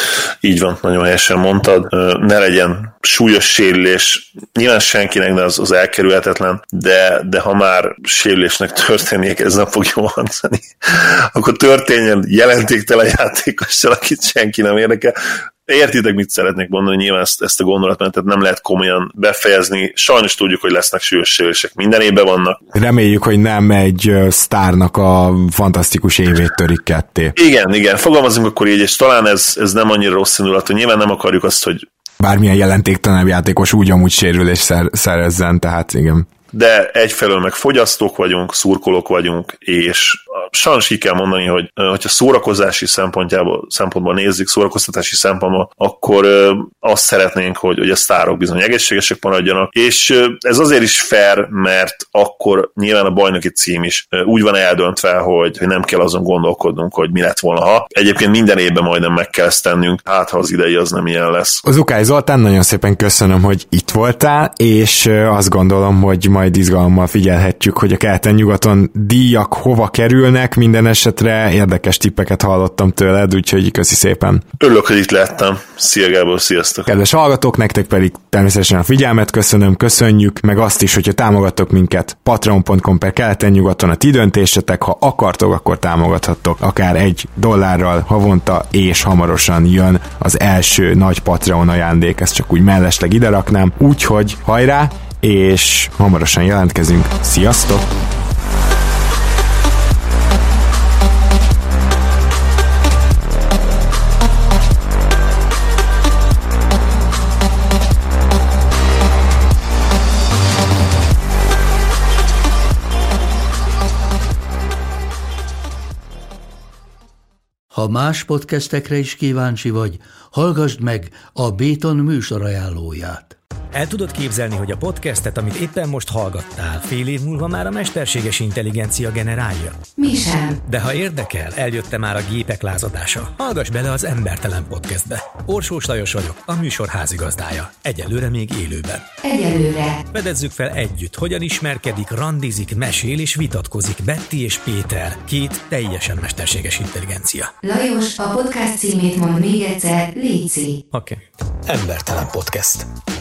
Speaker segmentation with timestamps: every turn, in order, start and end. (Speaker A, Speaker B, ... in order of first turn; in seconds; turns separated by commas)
Speaker A: 0.4-15.2, Speaker A: 15.7-22.6, Speaker B: 22.7-27.3, Speaker A: 27.4-31.8, Speaker B: 32.2-36.3, Speaker A: 36.5-61.6, Speaker B: 61.6-74.4, Speaker A: 74.6-76.9, Speaker B: 76.9-97.9, Speaker C: 117.7-123.4, Speaker D: 123.7-129.8, Speaker E: 130.0-130.6, Speaker D: 130.7-139.1, Speaker E: 139.2-140.0, Speaker D: 140.1-147.5, Speaker E: 147.6-150.8, Speaker D: 150.9-152.9